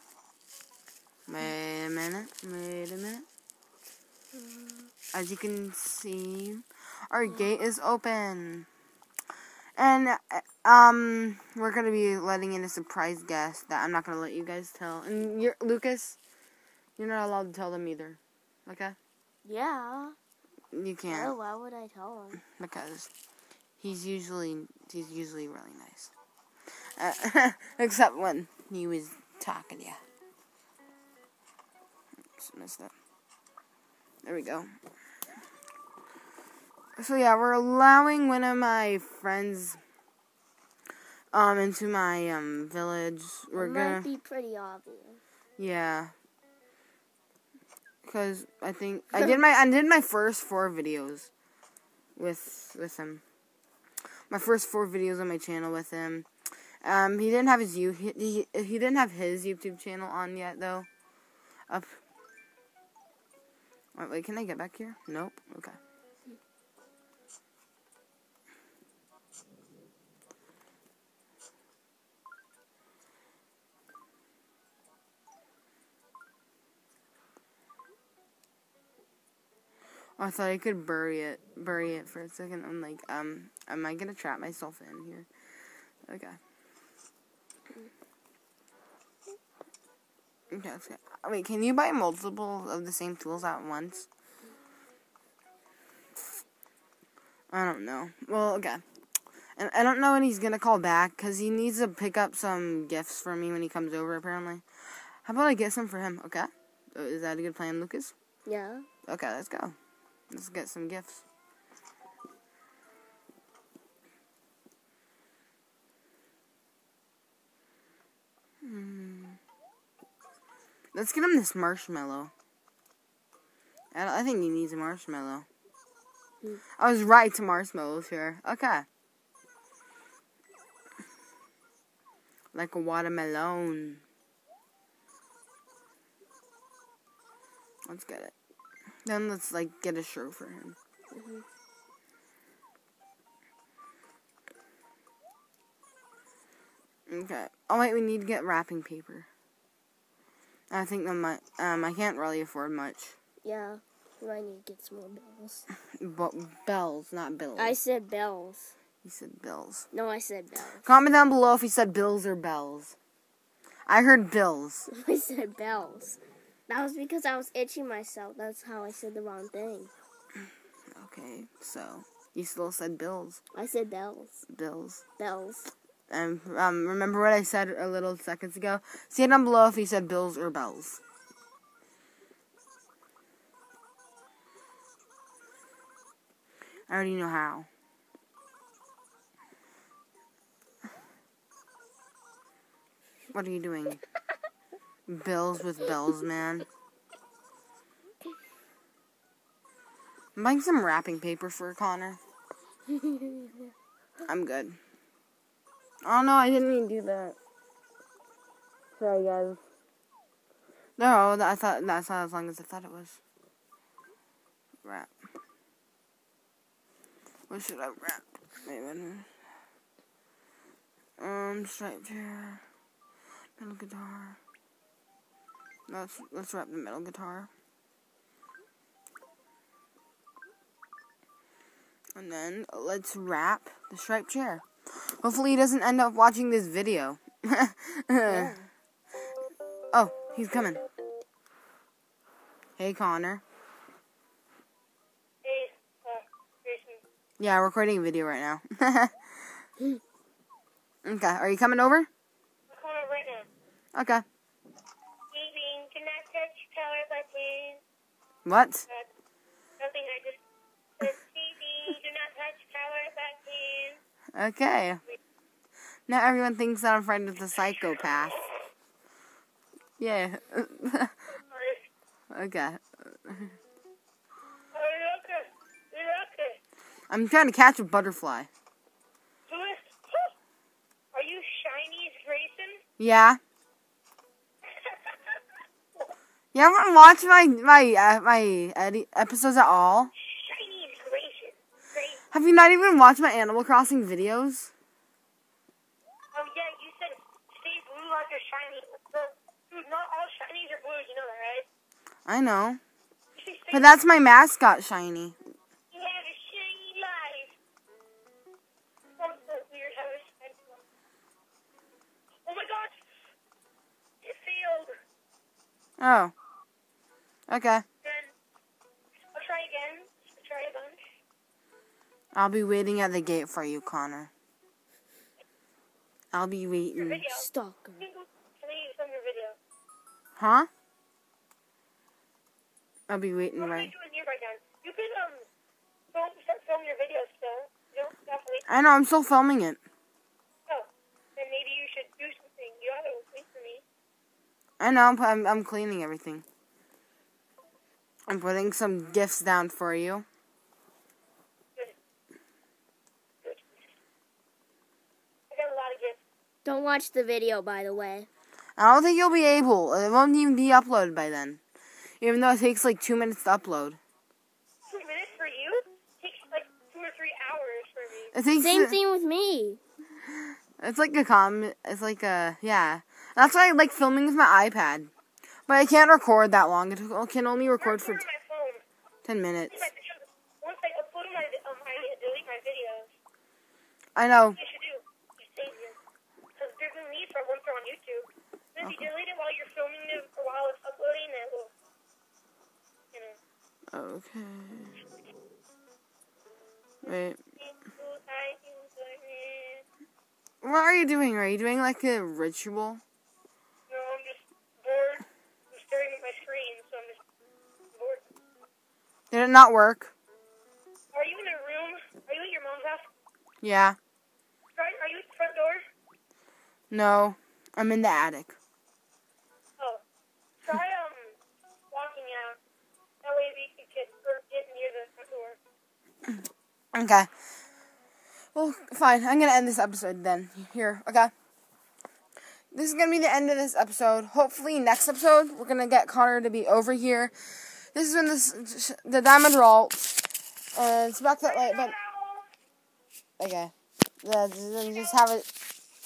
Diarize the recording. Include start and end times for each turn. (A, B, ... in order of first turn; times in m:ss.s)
0:01.3-0:03.2 A
0:05.1-0:08.7 A
0:09.8-0:16.2 A
0:17.0-0:19.0 A
0:19.4-0:20.2 B
0:20.7-0:21.3 A
0:21.1-0:22.4 B
0:22.5-0:23.1 A
0:23.8-0:26.1 A
0:27.0-0:30.0 A
0:32.4-0:32.9 A
0:34.2-0:34.7 A
0:37.0-0:39.8 A
0:41.3-0:44.1 A
0:43.6-0:45.2 B
0:45.6-0:46.1 A
0:48.0-0:51.3 A
0:52.2-0:53.2 A
0:54.3-0:56.3 A
0:56.8-1:00.9 A
1:01.7-1:02.0 A
1:03.9-1:05.8 A
1:20.2-1:25.3 A
1:26.1-1:26.4 A
1:30.5-1:34.1 A
1:37.5-1:38.8 A
1:39.6-1:44.6 A
1:45.2-1:48.1 A
1:48.4-1:48.9 B
1:49.1-1:49.8 A
1:50.3-1:51.2 A
1:58.6-1:59.4 A
2:00.9-2:02.3 A
2:03.9-2:05.4 A
2:06.8-2:08.9 A
2:12.5-2:14.0 A
2:17.9-2:18.3 A
2:19.0-2:20.8 A
2:21.1-2:21.4 B
2:27.1-2:29.3 A
2:30.7-2:33.2 A
2:33.4-2:35.6 B
2:36.0-2:37.8 A
2:37.6-2:38.7 B
2:39.0-2:39.9 A
2:39.9-2:40.8 B
2:40.8-2:42.9 A
2:43.9-2:44.9 A
2:44.9-2:49.9 B
2:50.9-2:53.4 A
2:53.5-2:54.4 B
2:54.5-2:55.0 A
2:55.2-2:55.7 B
2:56.1-3:01.0 A
3:06.9-3:07.7 A
3:13.3-3:14.0 A
3:15.1-3:16.6 A
3:20.4-3:22.2 A
3:24.2-3:24.8 A
3:26.0-3:27.4 A
3:29.0-3:29.6 A
3:31.0-3:33.2 A
3:34.8-3:35.1 A
3:37.5-3:39.3 A
3:41.2-3:42.6 A
3:43.6-3:44.4 A
3:45.9-3:47.5 A
3:52.2-3:58.5 A
3:58.2-3:58.7 B
3:59.9-4:00.8 A
4:02.8-4:03.4 A
4:05.4-4:07.0 C
4:07.4-4:09.1 A
4:11.0-4:12.1 A
4:12.7-4:13.5 C
4:13.9-4:14.2 A
4:15.3-4:17.8 C
4:18.4-4:18.9 A
4:19.8-4:20.4 C
4:21.0-4:24.0 C
4:24.4-4:25.0 A
4:26.1-4:28.5 A
4:30.0-4:31.1 A
4:31.5-4:31.9 C
4:32.3-4:33.5 A
4:34.7-4:36.6 C
4:37.1-4:38.5 A
4:39.5-4:40.3 C
4:41.1-4:42.8 C
4:43.0-4:43.4 A
4:44.6-4:45.4 C
4:46.5-4:50.1 A
4:50.2-4:52.2 C
4:52.3-4:54.7 A
4:56.3-5:01.7 C
5:02.2-5:02.8 A
5:03.4-5:04.0 C
5:03.7-5:05.4 A
5:05.9-5:07.6 C
5:09.2-5:10.8 C
5:12.5-5:13.0 C
5:14.2-5:15.0 C
5:16.0-5:16.3 A
5:17.5-5:17.8 A
5:18.0-5:18.3 C
5:19.3-5:21.0 C
5:22.4-5:24.3 A
5:26.3-5:27.2 A
5:26.9-5:27.5 C
5:27.3-5:28.0 B
5:28.0-5:29.6 C
5:30.4-5:30.7 A
5:33.1-5:33.9 A
5:33.6-5:35.5 C
5:36.1-5:38.7 C
5:38.7-5:39.8 A
5:40.7-5:43.8 C
5:44.8-5:46.4 A
5:48.3-5:50.2 A
5:53.4-5:53.7 C
5:55.5-5:56.2 C
5:56.6-5:58.3 B
5:58.8-6:01.6 A
6:02.2-6:04.0 A
6:04.9-6:08.3 C
6:08.3-6:09.0 A
6:08.6-6:09.8 B
6:10.8-6:15.1 A
6:15.7-6:18.2 A
6:17.8-6:18.8 C
6:19.2-6:19.9 A
6:19.7-6:23.1 C
6:24.2-6:24.6 A
6:24.6-6:26.0 C
6:26.6-6:31.7 C
6:28.8-6:29.1 A
6:33.9-6:35.0 A
6:37.0-6:39.8 C
6:37.1-6:37.4 A
6:40.6-6:43.0 A
6:43.9-6:47.2 C
6:47.9-6:48.2 C
6:49.3-6:50.1 A
6:51.1-6:53.1 C
6:53.6-6:54.0 A
6:54.8-6:55.8 C
6:56.9-6:58.6 A
7:00.7-7:01.4 C
7:01.9-7:02.6 C
7:03.2-7:05.6 C
7:06.9-7:07.3 A
7:08.5-7:11.3 A
7:12.7-7:21.9 A
7:21.4-7:22.5 C
7:23.4-7:25.6 A